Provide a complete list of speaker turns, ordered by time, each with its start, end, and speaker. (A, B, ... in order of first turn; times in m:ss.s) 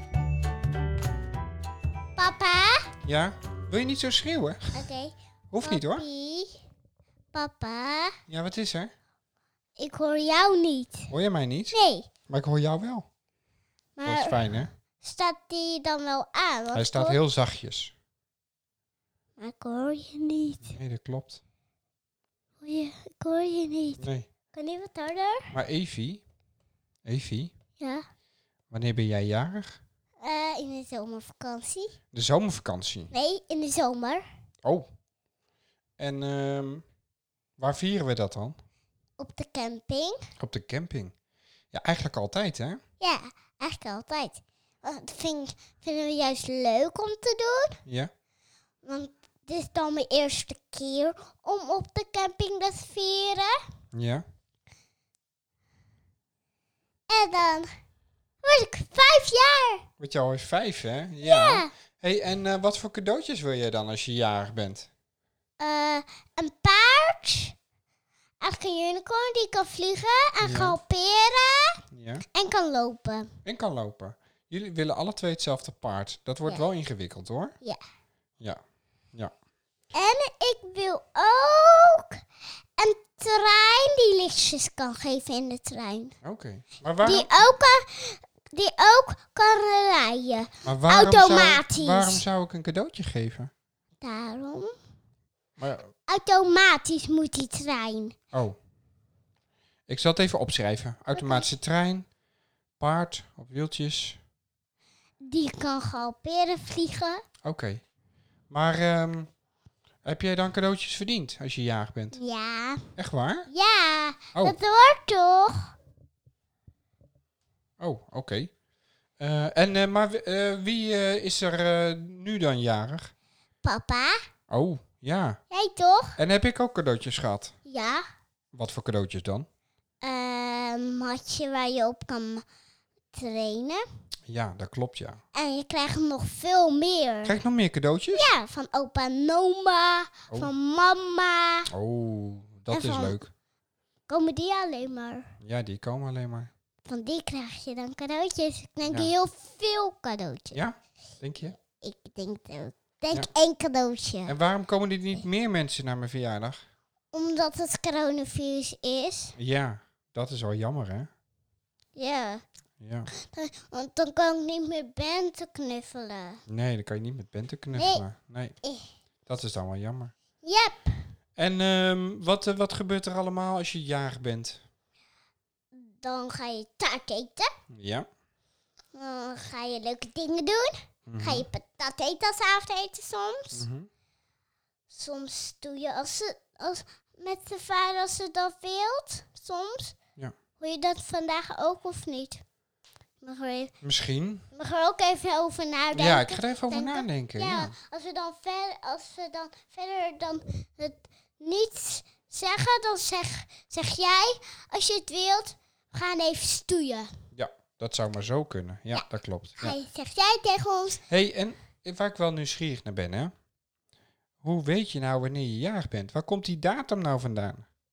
0:02.2-0:02.9 A
0:03.0-0:04.8 B
0:04.7-0:06.6 A
0:05.5-0:06.0 B
0:07.3-0:08.2 A
0:08.3-0:08.9 B
0:09.8-0:11.1 A
0:11.1-0:13.1 B
0:11.7-0:12.1 A
0:14.0-0:14.5 A
0:14.0-0:14.7 B
0:15.0-0:17.2 A
0:16.7-0:17.9 B
0:19.4-0:20.8 A
0:20.6-0:21.4 B
0:22.6-0:25.5 A
0:24.0-0:24.3 B
0:25.5-0:26.2 B
0:27.0-0:27.5 B
0:27.8-0:28.1 A
0:28.7-0:29.8 B
0:30.2-0:31.9 A
0:32.1-0:33.1 B
0:33.1-0:34.2 A
0:36.0-0:36.8 B
0:37.6-0:38.6 B
0:39.2-0:40.2 A
0:40.4-0:41.1 B
0:41.7-0:42.8 B
0:43.0-0:47.8 A
0:48.8-0:53.6 A
0:53.9-0:54.2 B
0:57.1-0:57.7 A
0:58.4-0:59.8 A
1:00.0-1:04.9 B
1:01.2-1:01.7 A
1:05.6-1:07.5 A
1:08.4-1:11.8 A
1:10.4-1:10.8 B
1:11.9-1:12.2 B
1:12.3-1:13.3 A
1:13.4-1:17.6 B
1:19.9-1:22.2 A
1:22.8-1:26.1 A
1:26.2-1:27.3 B
1:27.0-1:32.2 A
1:30.6-1:33.5 B
1:34.0-1:34.7 A
1:35.6-1:35.9 B
1:36.1-1:38.1 A
1:39.9-1:42.1 B
1:41.1-1:41.5 A
1:42.8-1:44.2 B
1:45.2-1:47.2 A
1:47.4-1:47.8 B
1:48.5-1:49.3 B
1:50.0-1:52.2 B
1:52.1-1:52.8 A
1:53.0-1:53.5 B
1:53.5-1:55.7 A
1:57.8-1:58.5 B
1:59.2-2:03.1 B
2:03.6-2:04.2 A
2:04.5-2:05.4 B
2:05.5-2:06.1 A
2:06.2-2:07.6 B
2:07.7-2:08.0 A
2:08.5-2:09.5 B
2:10.0-2:12.4 A
2:13.1-2:13.8 A
2:14.3-2:15.2 B
2:15.3-2:17.4 A
2:17.2-2:18.3 B
2:18.1-2:21.7 A
2:21.7-2:23.3 B
2:22.7-2:23.2 A
2:24.1-2:25.3 A
2:25.4-2:26.5 B
2:26.8-2:30.6 A
2:28.8-2:29.1 B
2:30.5-2:31.6 B
2:31.8-2:34.3 A
2:34.2-2:36.6 B
2:37.1-2:39.3 A
2:39.4-2:41.1 B
2:42.0-2:42.4 A
2:42.8-2:43.1 B
2:43.1-2:46.4 A
2:46.5-2:48.6 B
2:47.8-2:48.0 A
2:49.3-2:50.1 B
2:50.4-2:51.1 A
2:51.4-2:54.6 B
2:55.7-2:57.5 A
2:57.7-2:58.1 B
2:58.9-3:03.6 A
3:01.1-3:01.4 B
3:03.5-3:03.9 B
3:04.9-3:10.0 A
3:10.6-3:12.4 A
3:13.2-3:13.7 A
3:13.8-3:14.5 B
3:14.5-3:27.1 A
3:15.9-3:17.7 B
3:27.3-3:29.8 B
3:29.6-3:31.0 A
3:31.1-3:33.3 B
3:34.4-3:37.6 B